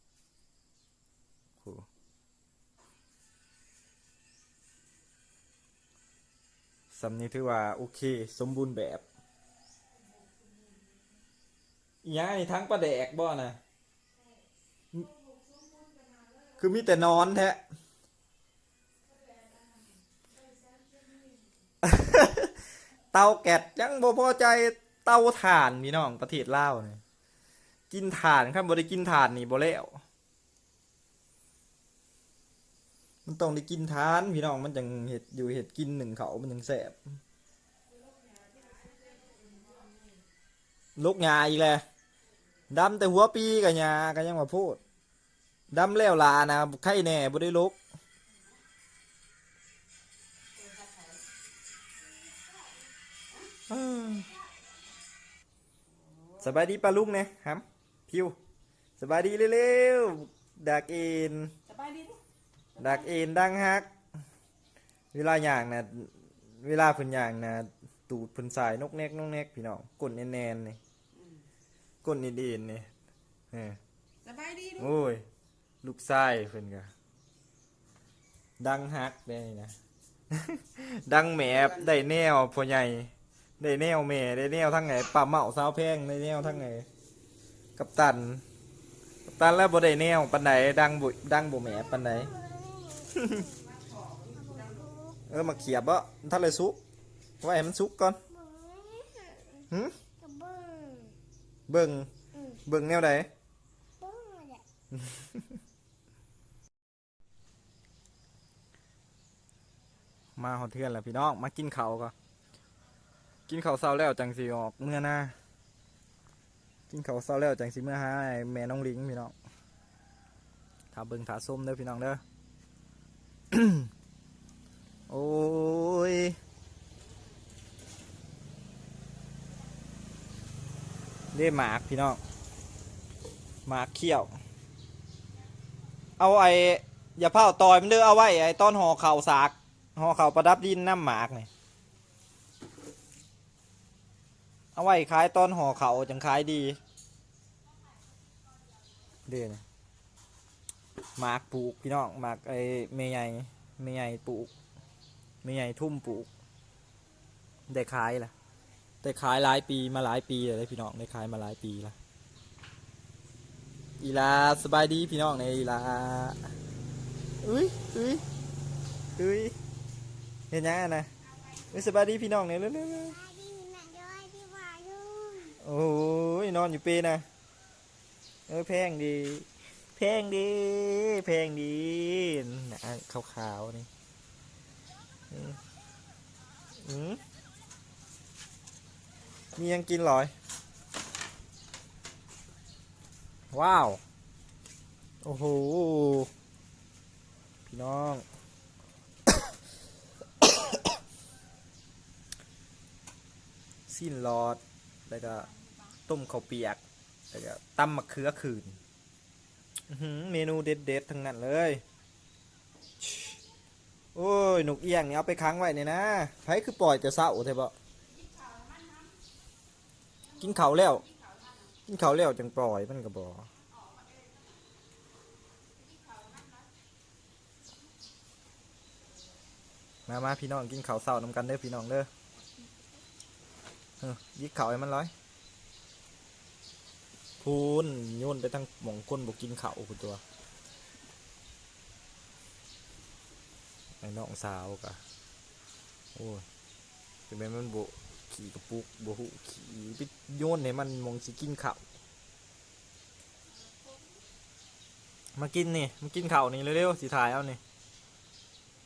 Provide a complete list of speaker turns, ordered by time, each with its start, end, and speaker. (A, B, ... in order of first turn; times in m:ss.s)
0:01.6-0:01.8 A
0:06.9-0:09.0 A
0:12.0-0:13.6 A
0:16.6-0:17.6 A
0:21.8-0:22.5 A
0:23.1-0:27.0 A
0:27.9-0:30.0 A
0:33.2-0:37.0 A
0:41.0-0:41.8 A
0:42.7-0:44.8 A
0:45.7-0:47.8 A
0:50.6-0:51.2 B
0:53.7-0:54.3 A
0:56.0-0:56.4 B
0:56.4-0:58.4 A
0:59.0-1:01.5 A
1:01.6-1:02.2 B
1:02.8-1:03.9 A
1:02.8-1:03.1 B
1:05.1-1:10.8 A
1:11.1-1:11.4 B
1:12.0-1:12.9 A
1:13.5-1:13.8 A
1:14.2-1:14.9 B
1:14.8-1:15.2 A
1:15.8-1:16.9 A
1:18.6-1:19.7 A
1:20.3-1:26.9 A
1:21.4-1:21.9 B
1:27.8-1:28.4 A
1:29.2-1:32.3 A
1:32.5-1:33.0 C
1:33.1-1:33.5 A
1:33.4-1:34.9 B
1:34.6-1:35.2 C
1:35.3-1:36.8 A
1:37.4-1:38.2 A
1:38.4-1:39.6 C
1:39.7-1:40.0 A
1:40.2-1:41.1 C
1:41.7-1:43.3 A
1:44.0-1:44.6 C
1:44.9-1:45.5 A
1:50.4-1:52.1 A
1:53.5-1:55.3 A
1:56.9-1:59.3 A
2:00.9-2:02.2 A
2:03.5-2:03.9 A
2:05.1-2:06.4 A
2:11.3-2:12.2 A
2:13.6-2:14.4 A
2:16.2-2:21.5 A
2:24.7-2:26.8 A
2:29.2-2:29.6 A
2:31.2-2:34.5 A
2:35.4-2:36.3 A
2:37.7-2:38.3 A
2:39.0-2:42.0 A
2:44.0-2:46.4 A
2:47.4-2:48.2 A
2:49.1-2:49.5 A
2:50.5-2:51.1 A
2:51.7-2:53.2 A
2:53.2-2:55.4 C
2:55.6-2:57.2 A
2:58.5-3:03.9 A
3:05.3-3:05.6 A
3:06.8-3:07.2 A
3:09.6-3:10.3 A
3:13.5-3:14.0 A
3:15.2-3:16.3 A
3:17.7-3:18.2 A
3:23.9-3:25.5 A
3:26.1-3:26.8 A
3:27.3-3:28.8 A
3:29.9-3:31.8 A
3:34.1-3:37.7 A
3:38.2-3:39.1 B
3:40.3-3:41.8 B
3:40.4-3:41.0 A
3:41.9-3:43.5 A
3:43.7-3:44.6 B
3:45.9-3:46.6 B
3:50.1-3:52.1 A
3:54.0-3:55.1 A
3:57.4-4:00.2 A
4:04.0-4:05.0 A
4:06.1-4:06.4 A
4:07.3-4:11.8 A
4:15.4-4:17.6 A